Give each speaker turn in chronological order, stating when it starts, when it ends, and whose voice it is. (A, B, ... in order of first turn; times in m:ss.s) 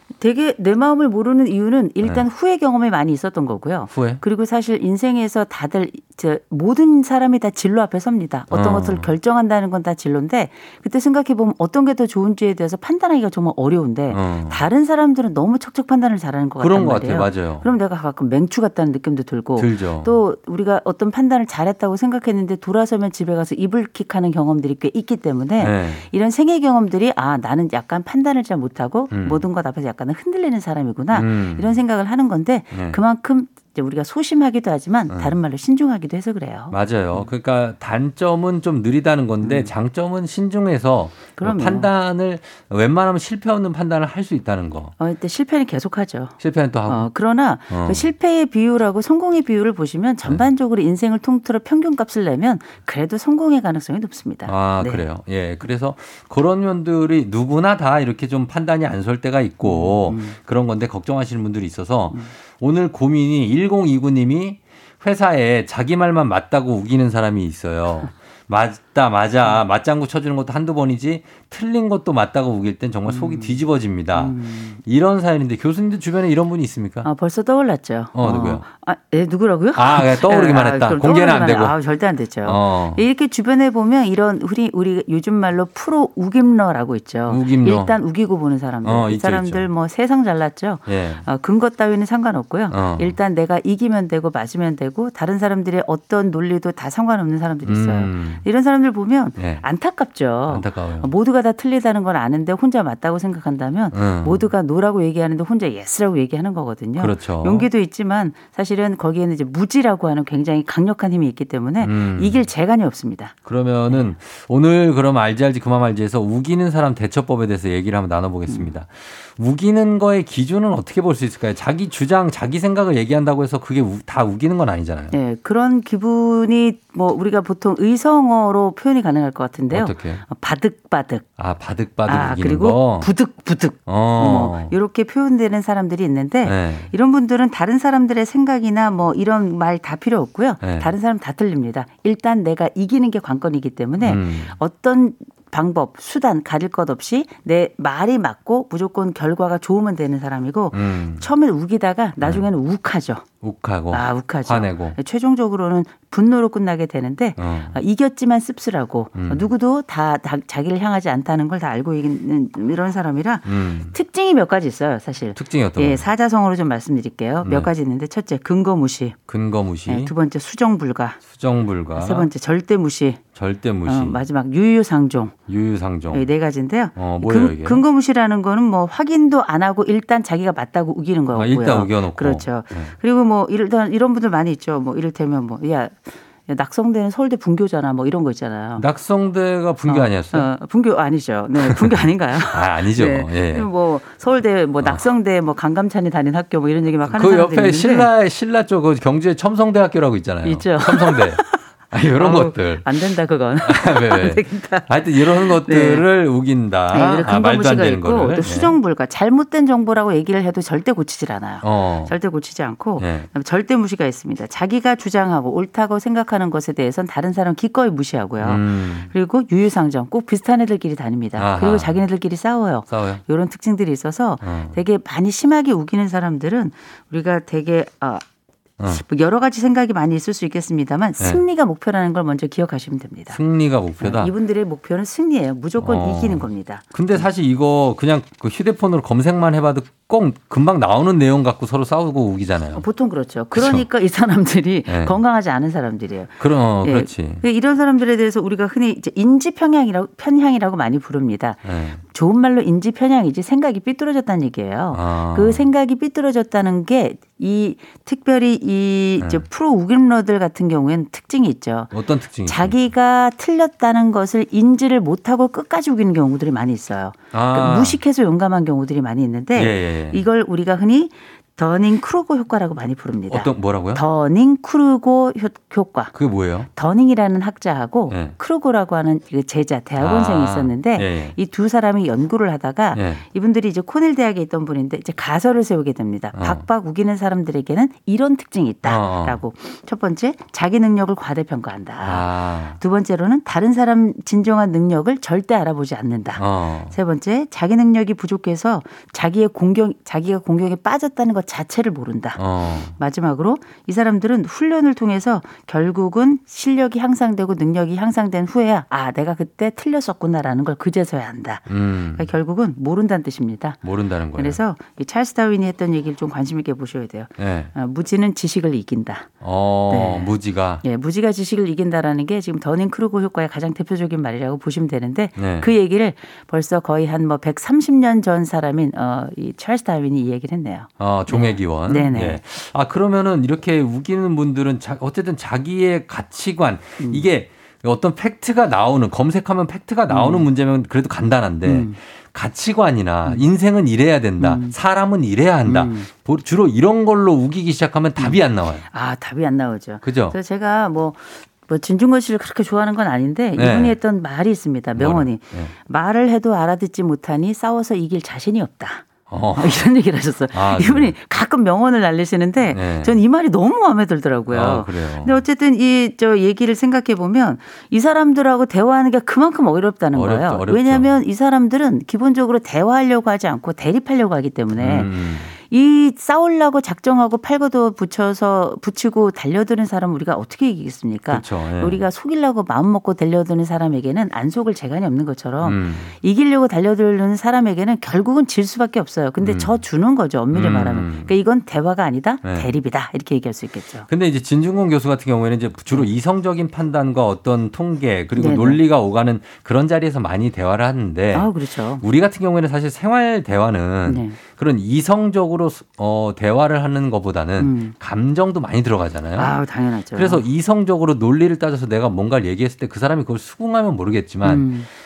0:00.2-0:37.3 A
0:03.9-0:04.2 B
0:08.5-0:09.1 B
0:14.1-0:14.6 B
0:16.6-0:17.7 B
0:19.6-0:20.2 B
0:25.6-0:26.0 B
0:29.1-0:29.4 B
0:31.1-0:31.8 B
0:32.7-0:33.0 B
0:35.1-0:35.4 B
0:36.7-0:44.9 B
0:39.4-0:39.7 A
0:41.4-0:41.9 A
0:45.0-0:55.1 A
0:46.4-0:47.1 B
0:47.7-0:48.1 B
0:54.5-1:17.1 B
0:59.6-1:00.4 A
1:13.1-1:13.6 A
1:14.2-1:14.8 A
1:17.0-1:53.4 A
1:18.2-1:18.6 B
1:19.8-1:21.8 B
1:22.4-1:23.0 B
1:27.3-1:28.0 B
1:28.8-1:29.7 B
1:30.9-1:31.2 B
1:32.7-1:33.2 B
1:37.6-1:38.4 B
1:39.4-1:39.6 B
1:40.5-1:41.1 B
1:43.9-1:44.4 B
1:47.0-1:47.7 B
1:51.8-1:52.4 B
1:53.5-2:05.1 B
1:53.9-1:54.1 A
1:58.5-1:58.7 A
2:05.1-2:11.3 A
2:09.7-2:10.2 B
2:11.4-2:13.1 B
2:12.1-2:33.2 A
2:13.9-2:14.7 B
2:16.4-2:16.9 B
2:20.6-2:20.9 B
2:24.0-2:24.6 B
2:30.7-2:31.3 B
2:32.2-2:32.5 B
2:33.4-2:35.0 B
2:33.9-2:49.2 A
2:37.4-2:37.8 B
2:39.2-2:39.5 B
2:43.5-2:43.9 B
2:45.4-2:46.1 B
2:47.4-2:47.7 B
2:49.3-2:50.1 B
2:49.9-2:51.2 A
2:51.3-2:52.3 B
2:52.0-2:53.2 A
2:53.4-2:54.2 B
2:53.8-2:55.4 A
2:55.5-2:56.3 B
2:56.1-3:08.9 A
2:57.0-2:57.8 B
3:01.3-3:02.9 B
3:08.8-3:10.5 B
3:09.9-3:18.1 A
3:11.6-3:13.7 B
3:14.8-3:15.1 B
3:17.0-3:22.9 B
3:20.4-3:21.6 A
3:22.1-3:26.1 A
3:23.6-3:28.8 B
3:26.9-3:48.2 A
3:31.6-3:32.2 B
3:33.0-3:33.3 B
3:38.4-3:39.1 B
3:41.4-3:42.0 B
3:42.9-3:43.2 B
3:44.4-3:44.8 B
3:48.8-3:53.4 A
3:53.3-3:54.3 B
3:54.0-3:57.3 A
3:55.8-4:02.8 B
4:02.7-4:21.9 A
4:03.6-4:03.9 B
4:04.9-4:05.2 B
4:06.4-4:07.4 B
4:11.6-4:12.0 B
4:14.9-4:15.7 B
4:21.9-4:22.8 B
4:22.4-4:36.1 A
4:27.3-4:28.0 B
4:29.6-4:30.2 B
4:33.3-4:34.0 B
4:36.1-4:36.7 B
4:36.7-5:13.8 A
4:40.0-4:41.4 B
4:42.9-4:43.2 B
4:46.3-4:46.6 B
4:48.8-4:49.4 B
4:52.0-4:52.8 B
4:56.4-4:57.0 B
5:02.4-5:03.0 B
5:11.7-5:12.3 B
5:13.8-5:14.6 B
5:14.4-5:19.3 A
5:17.4-5:17.7 B
5:19.4-5:20.8 B
5:19.9-5:32.4 A
5:25.4-5:25.7 B
5:31.0-5:48.8 B
5:37.0-5:37.2 A
5:40.1-5:40.5 A
5:41.6-5:42.0 A
5:44.4-5:44.8 A
5:45.6-5:46.1 A
5:48.2-6:34.1 A
5:50.0-5:50.4 B
5:53.6-5:54.0 B
5:55.0-5:55.7 B
5:59.3-5:59.8 B
6:00.5-6:01.1 B
6:02.7-6:03.2 B
6:04.5-6:05.4 B
6:10.1-6:11.1 B
6:14.8-6:15.5 B
6:21.3-6:22.0 B
6:25.6-6:26.1 B
6:29.4-6:29.8 B
6:30.5-6:31.3 B
6:32.4-6:32.7 B
6:34.1-6:49.6 B
6:38.4-6:38.8 A
6:41.3-6:42.0 A
6:44.1-6:44.4 A
6:47.6-6:48.0 A
6:49.4-6:50.4 A
6:50.1-6:54.7 B
6:54.4-6:54.9 A